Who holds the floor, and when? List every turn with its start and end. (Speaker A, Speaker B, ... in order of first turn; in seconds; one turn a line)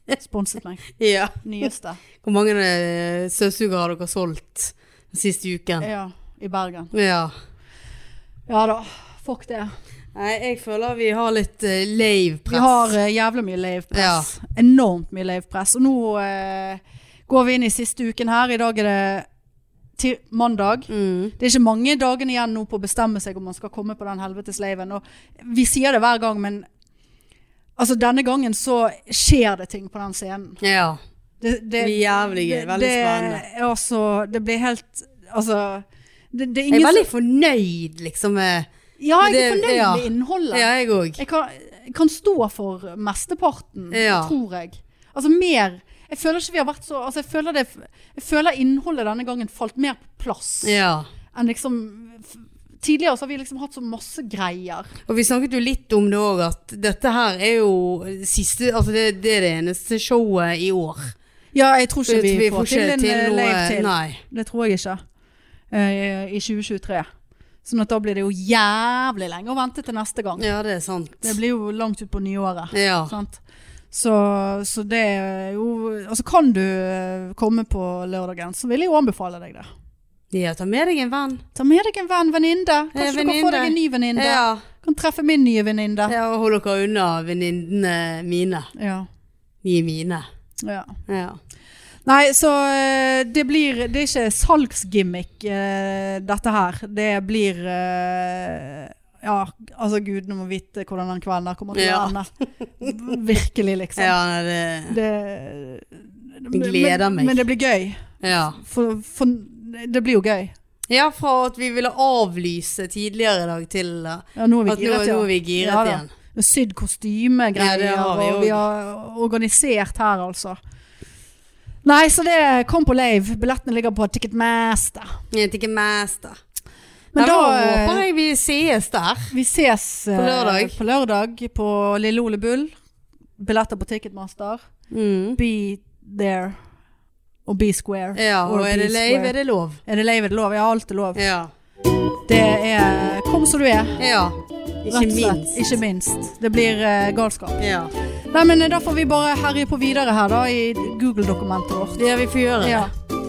Speaker A: 0.2-0.9
Speaker B: 1.0-1.4
Speaker A: 1.4-2.0
Speaker B: 2.2-5.9
Speaker A: 5.8-6.9
Speaker B: 6.9-7.3
Speaker A: 8.5-9.7
Speaker B: 10.2-12.9
Speaker A: 12.5-19.3
Speaker B: 13.9-14.3
Speaker A: 20.0-26.7
Speaker B: 20.9-21.4
Speaker A: 27.8-30.6
Speaker B: 30.6-31.0
Speaker A: 31.4-37.1
Speaker B: 31.8-33.4
Speaker B: 36.7-38.7
Speaker A: 39.0-50.8
Speaker B: 39.2-41.2
Speaker B: 43.9-44.3
Speaker B: 50.6-51.1
Speaker A: 51.3-54.9
Speaker B: 55.1-61.1
Speaker A: 61.5-65.0
Speaker B: 62.1-64.2
Speaker A: 65.7-67.1
Speaker A: 67.6-70.5
Speaker B: 70.4-71.4
Speaker A: 71.2-73.4
Speaker B: 72.7-73.1
Speaker A: 73.9-79.7
Speaker B: 80.3-81.4
Speaker A: 81.5-86.2
Speaker B: 82.9-84.6
Speaker B: 86.1-88.7
Speaker A: 88.8-89.1
Speaker B: 89.6-90.3
Speaker A: 90.6-91.0
Speaker B: 91.1-91.4
Speaker A: 92.1-102.3
Speaker B: 101.8-102.1
Speaker A: 102.8-104.2
Speaker B: 104.0-105.0
Speaker A: 104.9-110.5
Speaker B: 106.5-107.4
Speaker B: 108.2-108.6
Speaker B: 110.9-116.1
Speaker A: 114.4-120.6
Speaker B: 117.6-118.6
Speaker A: 121.8-125.1
Speaker B: 125.3-126.4
Speaker A: 127.1-128.0
Speaker B: 127.2-129.3
Speaker A: 129.3-132.7
Speaker B: 130.2-130.8
Speaker A: 133.4-134.6
Speaker B: 134.9-135.4
Speaker A: 135.4-136.6
Speaker A: 137.5-139.3
Speaker B: 138.2-139.8
Speaker A: 139.9-141.2
Speaker B: 141.2-141.5
Speaker A: 142.3-144.0
Speaker B: 144.0-145.7
Speaker A: 144.9-147.6
Speaker B: 147.6-147.9
Speaker A: 148.3-152.0
Speaker B: 152.0-152.9
Speaker A: 152.6-152.9